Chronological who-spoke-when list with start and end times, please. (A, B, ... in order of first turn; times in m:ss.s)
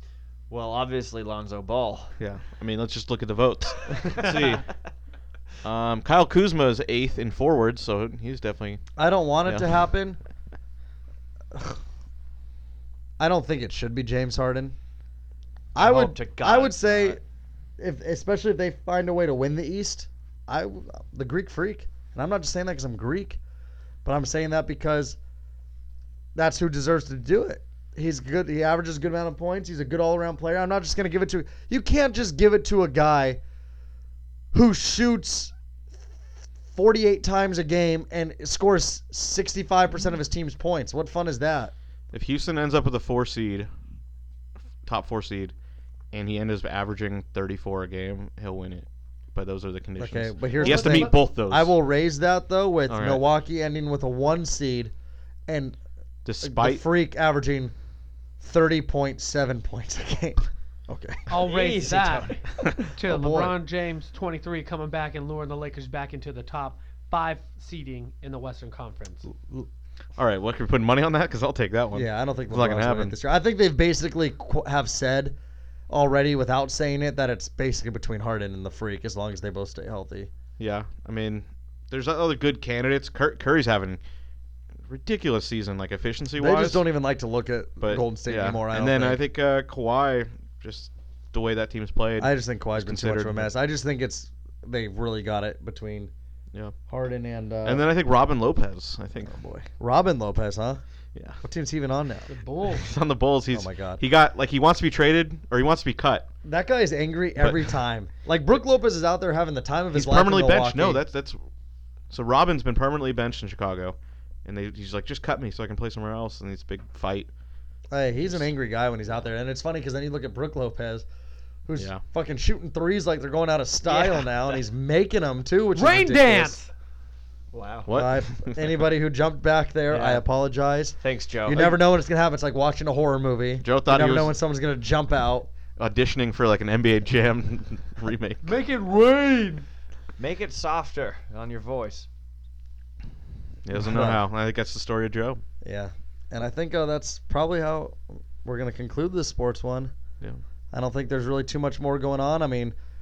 0:00.5-0:02.2 A
0:02.2-0:04.8 B
0:05.6-0:08.9 B
0:09.0-0:10.2 C
0:09.5-0:09.8 B
0:11.5-0:11.8 C
0:13.2-0:14.8 C
0:15.7-0:17.2 C
0:15.8-0:17.2 A
0:17.8-0:23.4 C
0:24.0-0:25.2 C
0:26.4-0:33.4 C
0:34.5-0:35.5 C
0:36.7-0:41.7 C
0:42.1-0:43.7 B
0:44.8-0:45.5 B
0:46.1-0:51.7 B
0:50.0-0:54.9 C
0:50.6-0:51.3 D
0:52.9-0:53.2 B
0:55.5-0:55.8 C
0:56.2-0:56.8 B
0:56.4-0:57.7 C
0:58.4-1:01.4 C
1:01.3-1:09.3 D
1:01.4-1:02.4 A
1:02.8-1:03.6 C
1:10.2-1:13.2 B
1:11.9-1:15.4 C
1:15.9-1:20.3 C
1:20.6-1:24.0 B
1:24.8-1:26.8 B
1:26.4-1:29.2 C
1:27.8-1:33.5 B
1:32.2-1:36.1 C
1:36.9-1:37.9 C
1:37.6-1:39.4 B
1:39.3-1:40.8 C
1:41.1-1:41.4 B
1:41.4-1:42.3 C
1:42.3-1:42.9 D
1:42.8-1:46.3 B
1:43.5-1:44.0 C
1:46.4-1:51.0 C
1:47.4-1:47.7 B
1:49.9-1:51.5 B
1:52.1-1:57.3 B
1:57.9-2:01.1 C
1:58.2-1:58.5 B
2:01.7-2:06.6 C
2:01.8-2:02.0 B
2:03.9-2:04.6 A
2:05.8-2:06.7 D
2:07.5-2:07.9 A
2:07.9-2:08.8 B
2:07.9-2:15.5 C
2:09.9-2:10.2 A
2:11.0-2:11.8 A
2:13.6-2:14.3 B
2:15.8-2:18.5 B
2:18.4-2:19.7 D
2:20.2-2:22.1 A
2:23.6-2:25.4 B
2:23.7-2:24.2 C
2:25.6-2:29.9 C
2:30.7-2:32.7 C